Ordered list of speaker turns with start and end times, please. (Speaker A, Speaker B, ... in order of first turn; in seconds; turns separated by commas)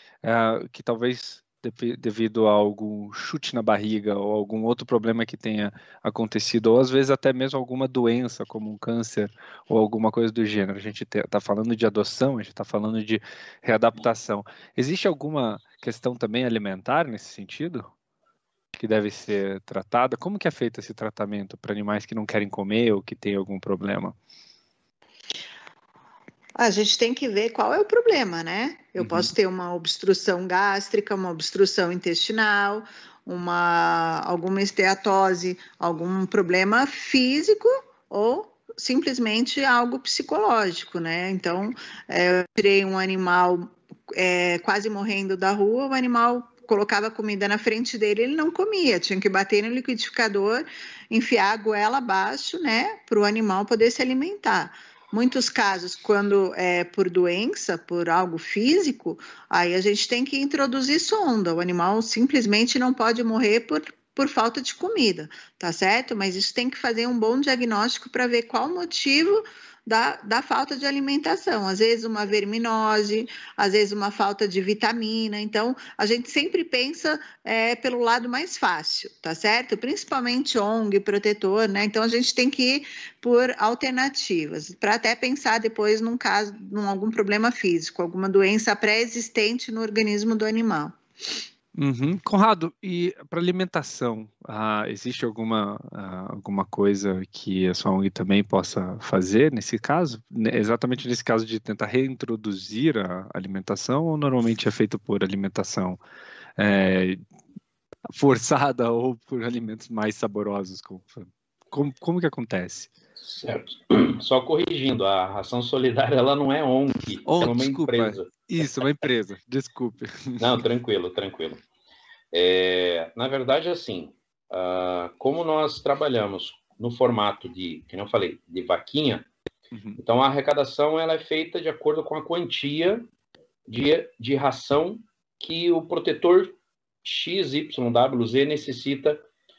Speaker A: 0.2-17.9, Speaker A: 18.7-24.1, Speaker B: 26.6-91.4, Speaker A: 29.0-29.3, Speaker A: 91.8-106.0, Speaker A: 106.6-107.2, Speaker A: 108.1-112.9, Speaker C: 113.2-118.3, Speaker A: 117.2-120.5, Speaker C: 120.4-121.6, Speaker C: 122.3-129.2, Speaker A: 129.7-130.0, Speaker C: 130.0-133.1, Speaker C: 133.7-139.2